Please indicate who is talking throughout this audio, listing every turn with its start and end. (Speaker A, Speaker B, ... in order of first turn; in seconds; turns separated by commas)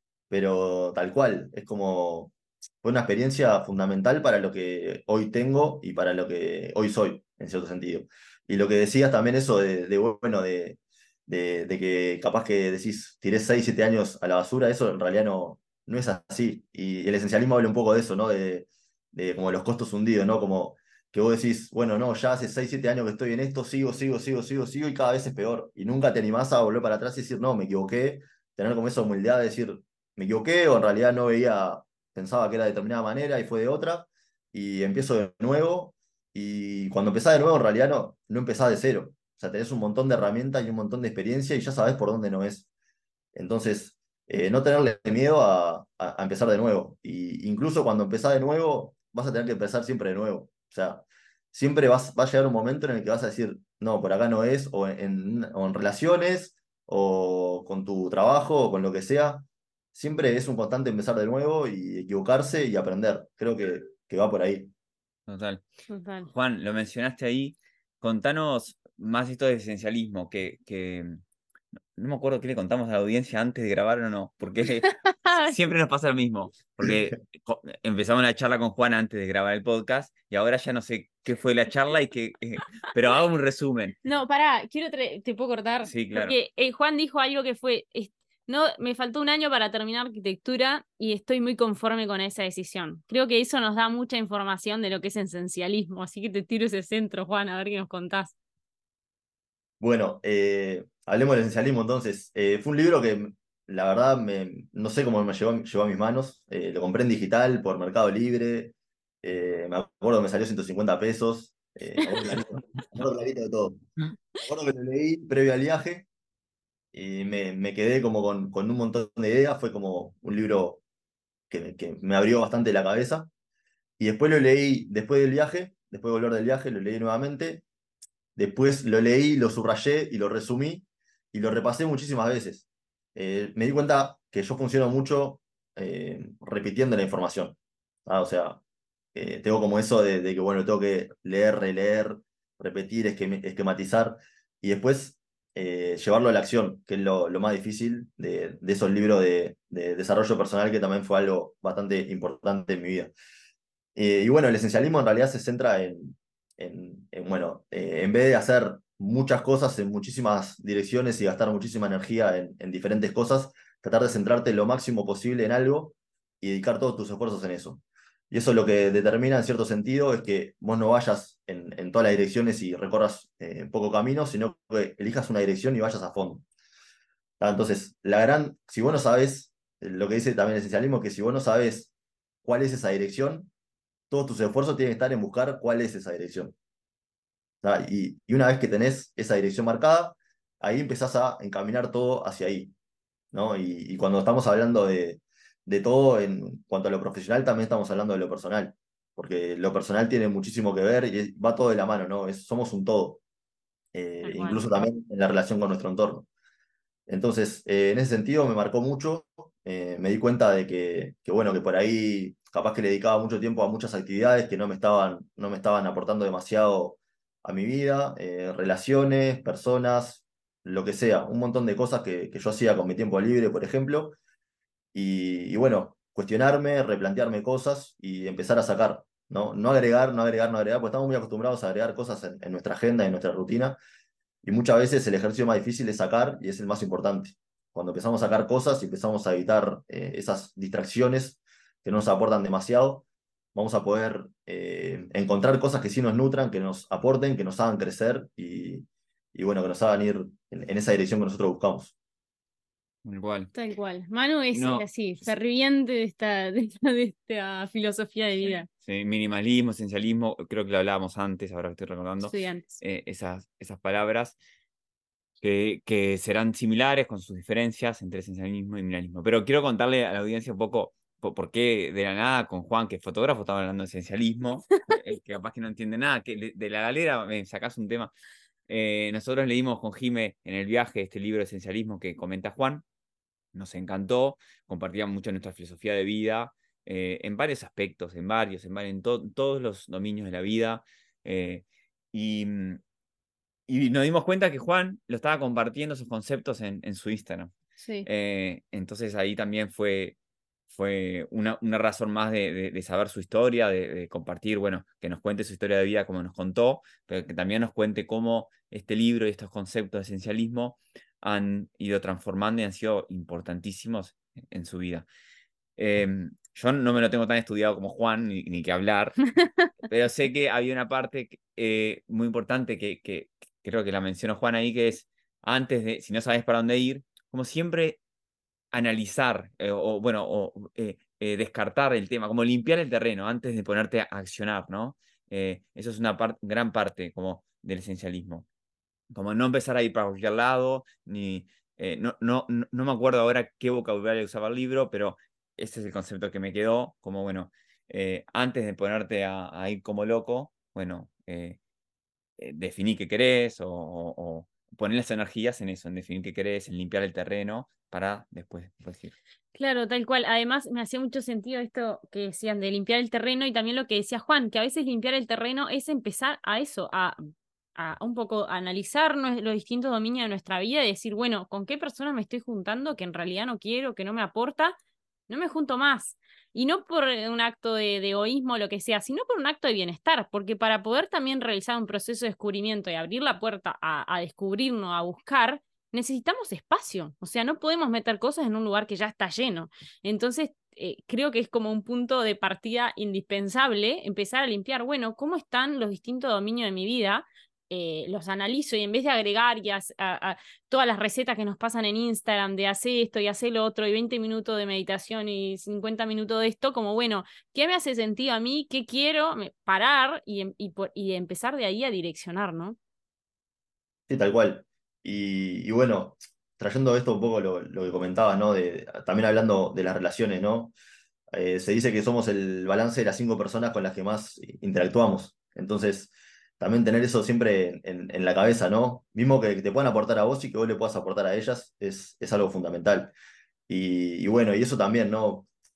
Speaker A: 0.3-42.7, Speaker A: 43.4-64.7, Speaker B: 65.3-65.6, Speaker C: 65.9-66.3, Speaker B: 66.3-71.2, Speaker B: 72.0-84.0, Speaker C: 74.8-75.6, Speaker C: 84.0-98.3, Speaker B: 85.8-86.3, Speaker A: 99.8-113.8, Speaker A: 114.5-116.1, Speaker A: 116.9-120.8, Speaker A: 121.5-123.3, Speaker A: 124.0-127.6, Speaker A: 128.4-138.6, Speaker A: 139.1-153.1, Speaker A: 153.9-176.4, Speaker A: 177.4-181.9, Speaker A: 182.4-183.5, Speaker A: 184.1-186.5, Speaker A: 187.6-192.7, Speaker A: 193.3-203.2, Speaker A: 203.9-206.3, Speaker C: 204.2-204.8, Speaker A: 207.1-224.2, Speaker A: 224.9-233.8, Speaker A: 234.4-251.9, Speaker B: 253.0-253.5, Speaker C: 253.5-258.7, Speaker B: 254.5-254.9, Speaker B: 258.8-264.4, Speaker C: 262.2-262.7, Speaker B: 265.4-278.1, Speaker B: 278.7-282.8, Speaker B: 283.5-292.8, Speaker B: 293.7-297.5, Speaker C: 297.8-298.1, Speaker B: 298.0-300.1, Speaker B: 300.7-315.1, Speaker B: 315.8-319.2, Speaker C: 319.4-319.7, Speaker B: 319.8-328.0, Speaker B: 328.7-338.5, Speaker B: 339.1-351.6, Speaker B: 352.4-359.1, Speaker C: 359.5-367.2, Speaker C: 367.8-374.8, Speaker C: 375.3-412.8, Speaker A: 414.1-420.7, Speaker A: 421.3-433.1, Speaker A: 433.7-435.5